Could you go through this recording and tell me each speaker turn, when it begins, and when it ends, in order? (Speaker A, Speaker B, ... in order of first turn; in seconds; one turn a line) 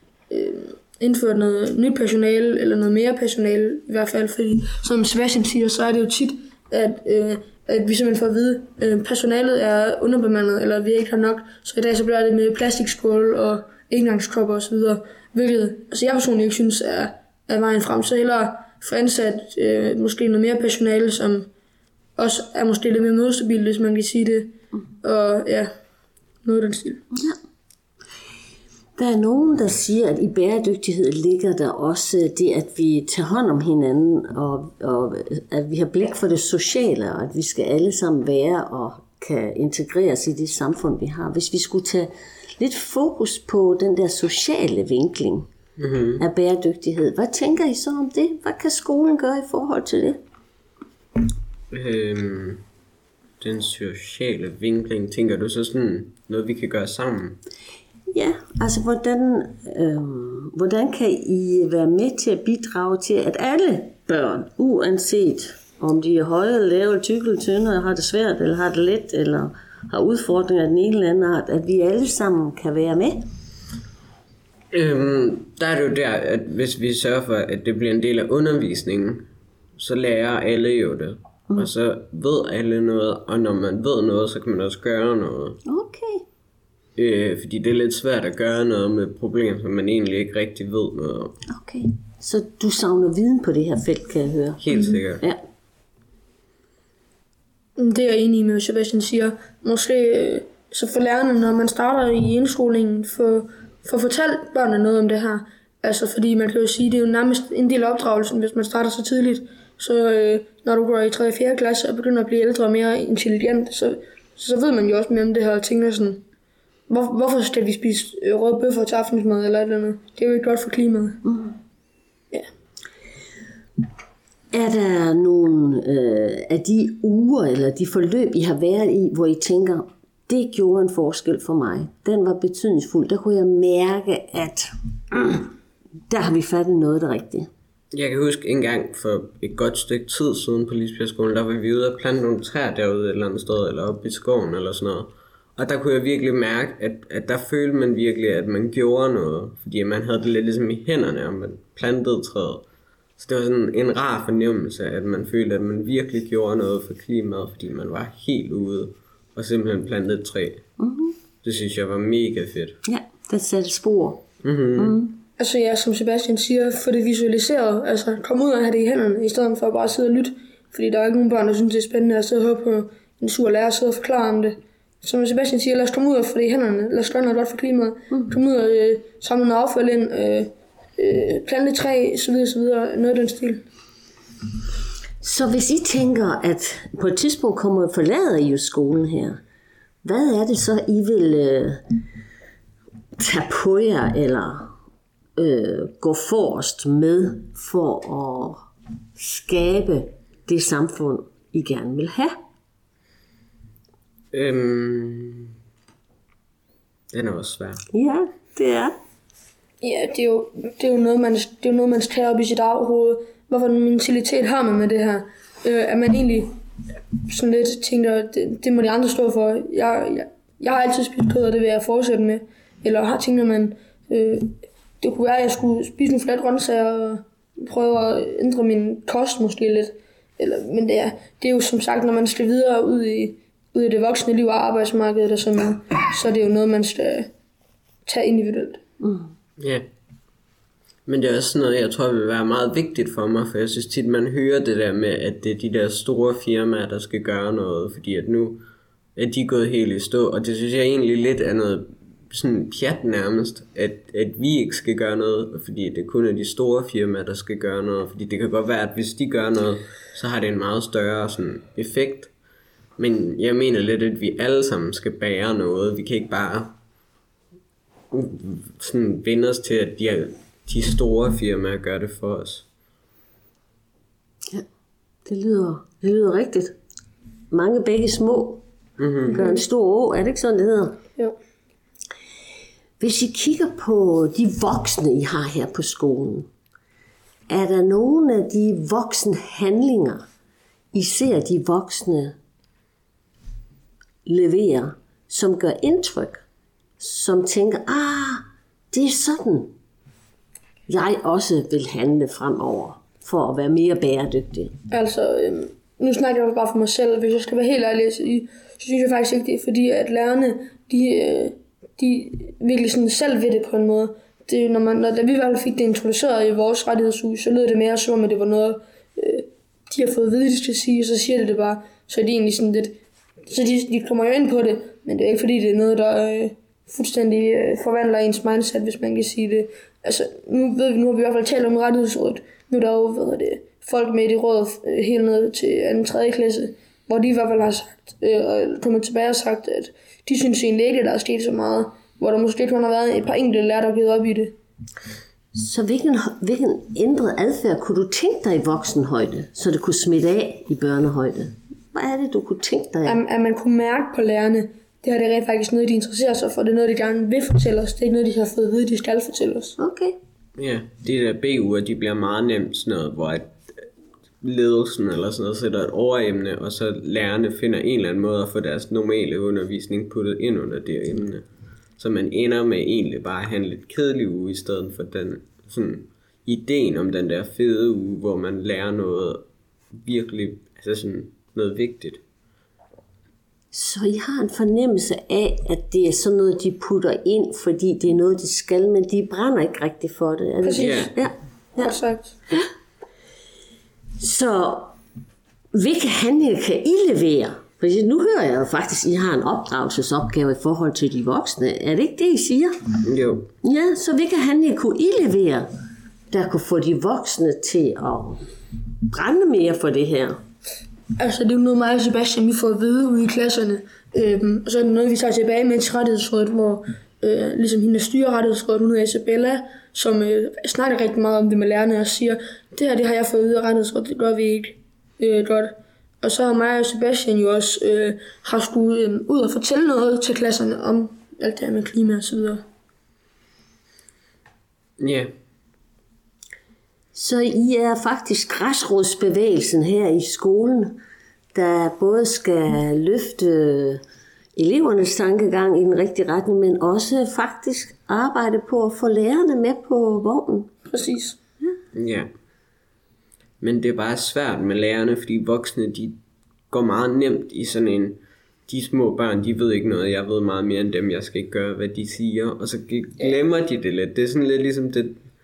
Speaker A: 0.3-21.5
Speaker A: 22.2-25.7
Speaker A: 26.4-27.1
Speaker B: 27.1-27.4
Speaker B: 29.0-45.5
Speaker C: 45.8-46.2
Speaker B: 46.2-50.2
Speaker C: 51.7-52.6
Speaker C: 53.4-57.4
Speaker B: 58.1-73.2
Speaker C: 74.7-85.6
Speaker B: 85.7-86.2
Speaker C: 87.0-91.4
Speaker B: 91.5-95.4
Speaker C: 94.6-95.2
Speaker A: 97.8-116.2
Speaker A: 116.9-121.2
Speaker B: 121.2-121.5
Speaker B: 124.5-135.5
Speaker B: 136.1-137.5
Speaker C: 137.9-152.7
Speaker C: 153.2-160.7
Speaker B: 160.8-161.1
Speaker C: 161.4-162.8
Speaker B: 162.8-164.2
Speaker C: 164.4-165.0
Speaker B: 164.8-165.2
Speaker A: 165.4-183.6
Speaker B: 185.2-189.4
Speaker B: 190.0-191.8
Speaker B: 193.2-194.7
Speaker B: 195.4-198.6
Speaker B: 199.2-202.3
Speaker C: 204.3-205.5
Speaker C: 207.1-207.8
Speaker B: 207.9-208.9
Speaker A: 209.8-216.5
Speaker A: 217.2-237.3
Speaker A: 238.0-238.8
Speaker B: 239.0-239.3
Speaker C: 239.6-239.8
Speaker C: 241.1-248.6
Speaker C: 249.2-262.3
Speaker C: 263.0-266.7
Speaker C: 268.1-272.6
Speaker B: 275.2-276.8
Speaker B: 277.5-278.6
Speaker C: 279.0-279.4
Speaker B: 279.2-281.0
Speaker B: 283.0-286.5
Speaker B: 287.5-290.2
Speaker B: 290.9-292.4
Speaker B: 294.2-296.4
Speaker B: 297.0-299.7
Speaker B: 300.9-304.7
Speaker A: 304.9-344.6
Speaker B: 345.5-353.2
Speaker A: 353.1-359.8
Speaker B: 359.8-360.2
Speaker C: 360.6-363.9
Speaker C: 364.4-371.4
Speaker C: 372.0-382.2
Speaker B: 383.7-392.0
Speaker A: 390.6-391.1
Speaker C: 390.8-391.1
Speaker A: 391.8-392.4
Speaker B: 394.2-394.9
Speaker B: 395.7-402.7
Speaker C: 403.0-403.5
Speaker B: 403.6-405.7
Speaker B: 406.3-408.4
Speaker B: 409.1-410.4
Speaker A: 411.2-432.6
Speaker C: 435.0-435.3
Speaker B: 437.1-441.0
Speaker B: 441.5-444.0
Speaker B: 444.6-450.7
Speaker A: 450.9-451.4
Speaker C: 451.9-452.3
Speaker C: 453.6-456.2
Speaker C: 456.7-465.2